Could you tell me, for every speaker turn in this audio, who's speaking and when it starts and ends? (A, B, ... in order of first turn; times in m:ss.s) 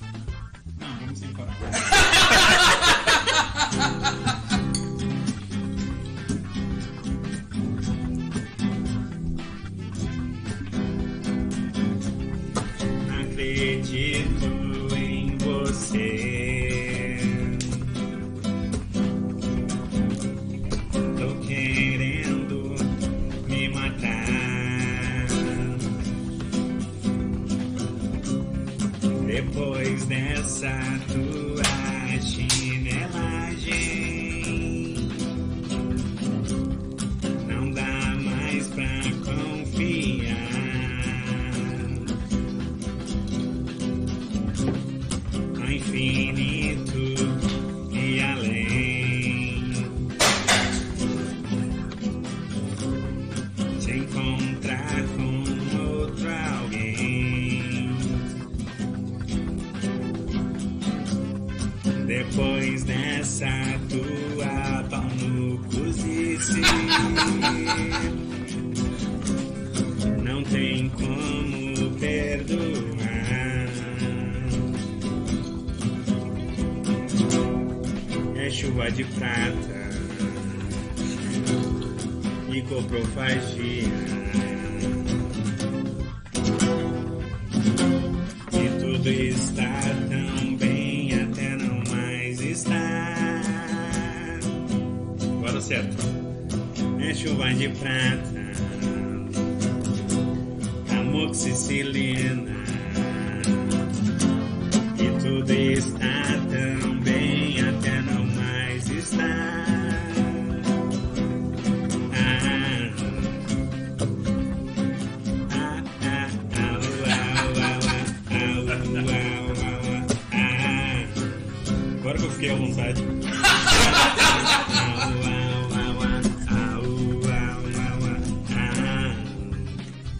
0:00.8-0:02.2 A
0:13.0-0:17.1 A
0:21.2-0:22.9 A
0:23.4-0:25.7 A
0:29.2-0:34.7 A
0:37.4-0:41.8 A
0:45.6-0:49.6 A
0:53.8-0:57.9 A
1:02.0-1:07.9 A
1:10.1-1:14.3 A
1:18.3-1:20.6 A
1:22.5-1:25.0 A
1:28.5-1:34.3 A
1:35.4-1:36.2 A
1:37.0-1:39.3 A
1:40.9-1:43.6 A
1:44.9-1:50.3 A
1:52.1-1:53.4 A
1:55.5-2:01.2 A
2:02.0-2:03.1 A
2:03.9-2:09.8 A